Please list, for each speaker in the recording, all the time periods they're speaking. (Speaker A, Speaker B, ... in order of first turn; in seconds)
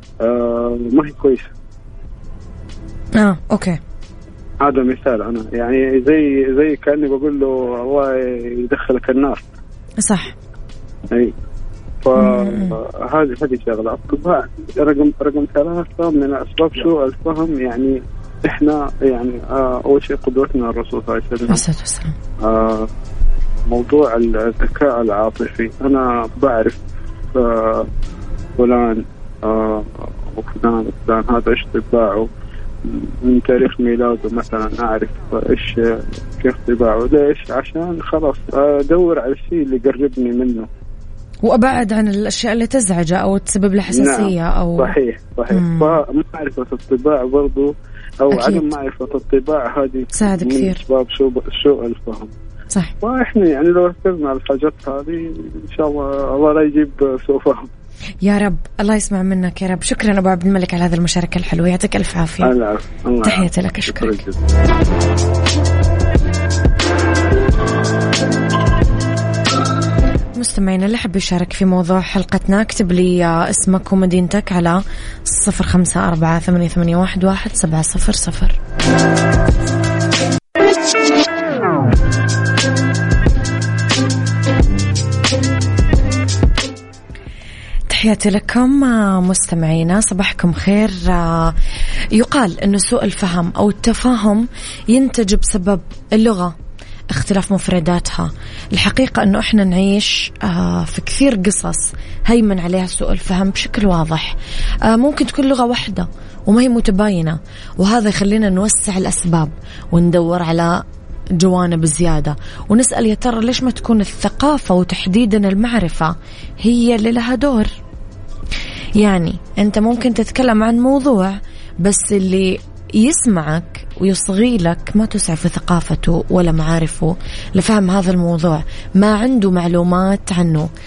Speaker A: 0.2-1.5, 4.6-9.4, 12.0-21.6, 22.4-22.9, 23.7-26.8, 27.4-27.9, 28.6-32.3, 32.9-40.7, 43.9-47.7, 48.2-52.3, 53.0-57.7, 62.4-64.4
Speaker B: 3.2-3.8, 10.0-10.3, 12.2-12.8, 21.5-22.2, 41.4-44.9, 45.5-46.0, 48.3-48.7, 50.1-50.8, 58.2-62.5, 63.2-64.2, 70.4-78.6, 87.9-91.6, 92.1-96.5, 97.1-110.8, 111.4-117.7, 119.0-130.7